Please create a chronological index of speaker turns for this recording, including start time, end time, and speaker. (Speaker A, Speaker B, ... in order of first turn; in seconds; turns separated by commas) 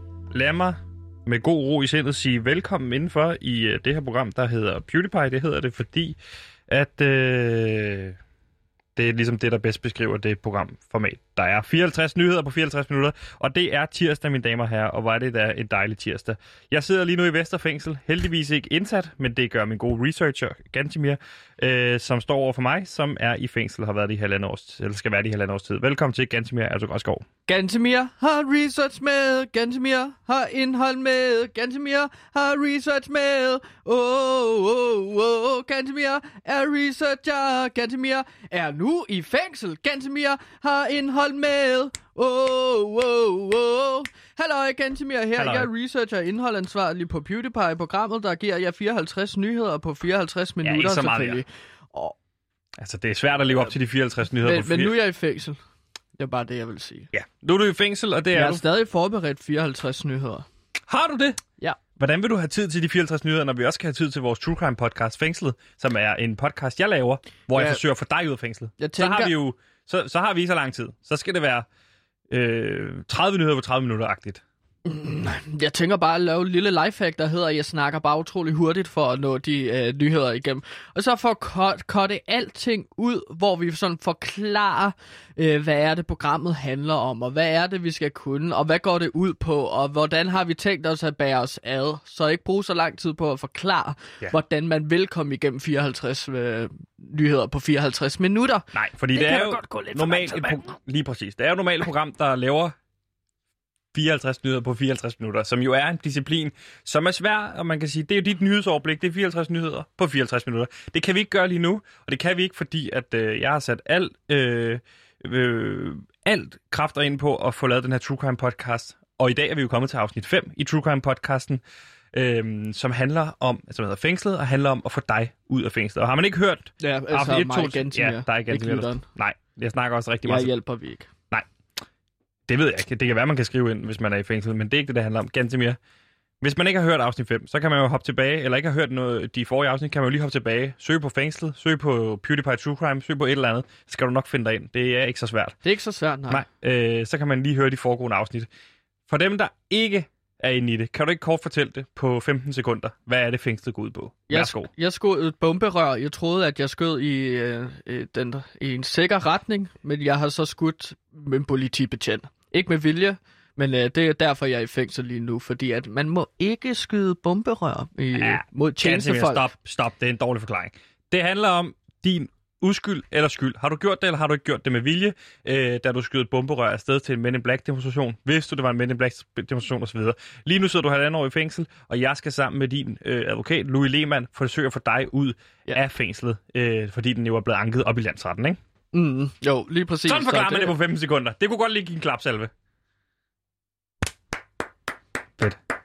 Speaker A: 0.3-6.2, Speaker A: 6.7-8.2, Speaker A: 8.9-27.2, Speaker B: 27.5-52.1, Speaker A: 45.4-45.7, Speaker A: 50.6-51.4, Speaker A: 52.8-54.9, Speaker B: 54.4-55.6, Speaker B: 56.2-57.1, Speaker A: 57.1-58.6, Speaker B: 58.3-60.5, Speaker A: 60.9-61.4, Speaker A: 62.0-71.7, Speaker B: 67.5-67.8, Speaker B: 68.8-69.3, Speaker A: 72.3-74.4, Speaker B: 74.8-100.7, Speaker A: 98.7-102.7, Speaker A: 103.9-130.5, Speaker B: 126.8-129.0, Speaker B: 130.2-131.1, Speaker A: 132.5-135.8, Speaker A: 136.4-145.6, Speaker B: 145.6-146.4, Speaker A: 146.3-148.5, Speaker A: 149.1-154.7, Speaker B: 154.3-169.5, Speaker A: 168.1-188.6, Speaker B: 188.9-190.7, Speaker A: 190.1-192.5